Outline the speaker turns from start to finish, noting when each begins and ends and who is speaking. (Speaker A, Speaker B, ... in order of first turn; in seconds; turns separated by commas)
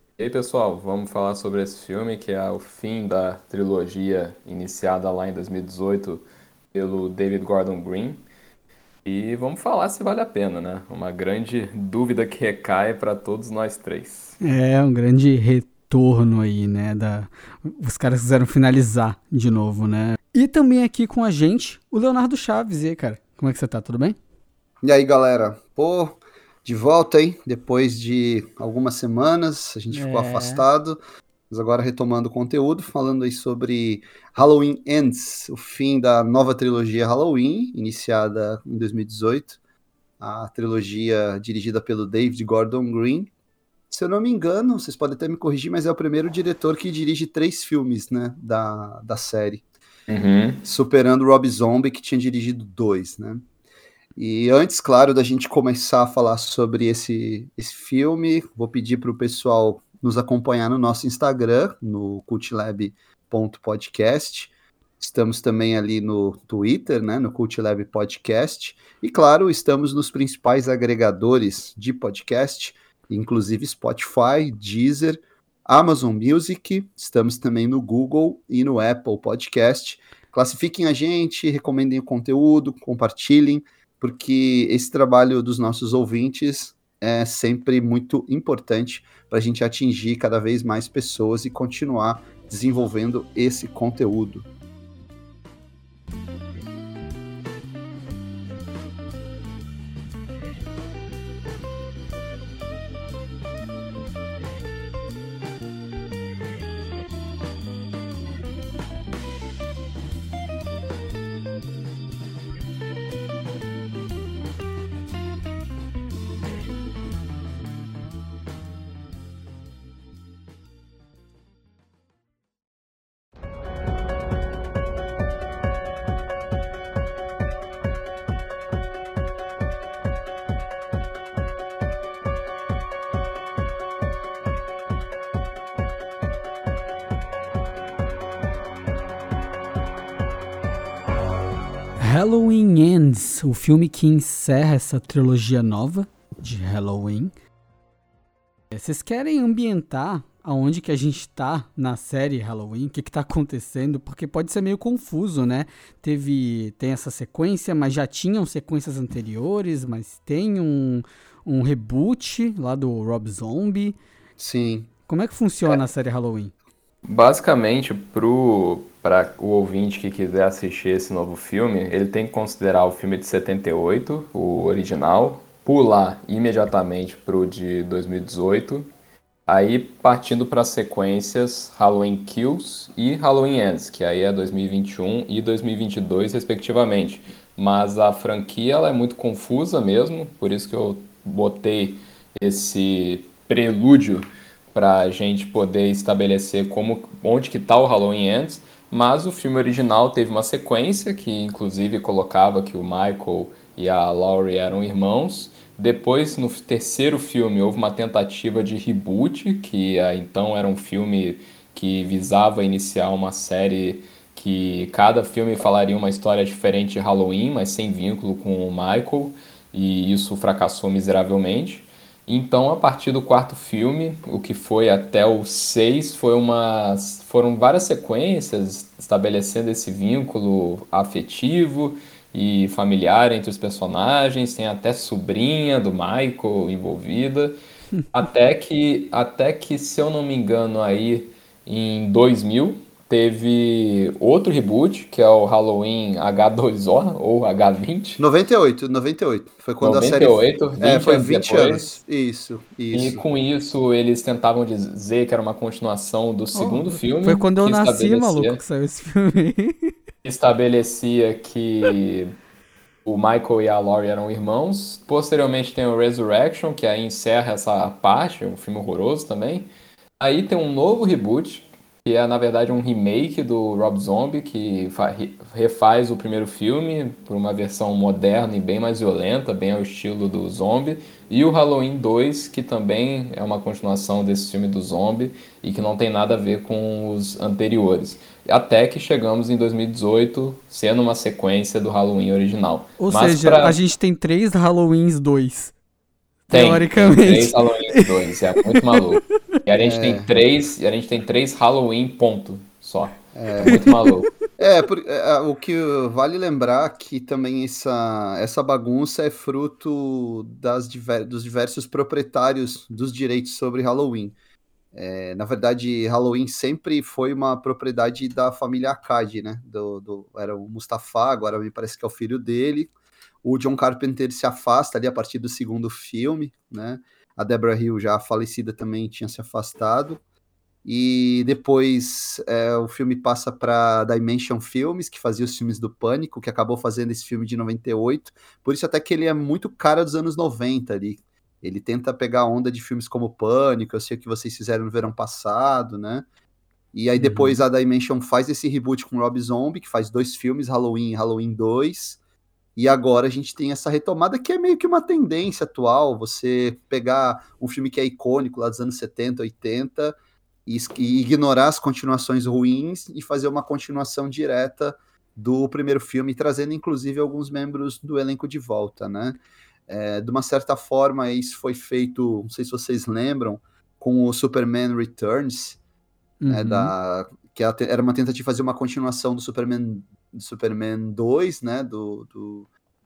Speaker A: 0.2-8.2, Speaker A: 9.0-14.3, Speaker B: 14.4-24.2, Speaker C: 24.8-31.0, Speaker B: 29.9-30.6, Speaker C: 31.5-39.6, Speaker C: 40.2-43.3, Speaker C: 43.9-49.6, Speaker A: 50.1-50.6, Speaker C: 50.6-53.4, Speaker C: 54.1-94.5, Speaker B: 142.0-147.3, Speaker B: 148.7-164.0, Speaker C: 164.4-164.9, Speaker B: 165.1-166.5, Speaker A: 167.1-178.9, Speaker A: 179.5-237.6, Speaker A: 238.1-248.2, Speaker C: 248.2-253.2, Speaker A: 249.8-251.9, Speaker A: 252.9-258.6, Speaker B: 256.5-259.9, Speaker A: 260.2-262.3, Speaker A: 263.0-269.7, Speaker A: 270.2-293.8, Speaker B: 293.0-295.7, Speaker B: 296.5-299.0, Speaker A: 296.5-304.3, Speaker C: 299.8-300.3, Speaker C: 303.4-303.9, Speaker B: 303.6-304.2, Speaker C: 304.6-314.3, Speaker C: 314.9-322.9, Speaker C: 323.4-330.2, Speaker C: 330.8-346.2, Speaker C: 346.9-352.2, Speaker B: 347.2-347.6, Speaker C: 352.8-375.8, Speaker B: 376.4-376.9, Speaker C: 376.5-382.7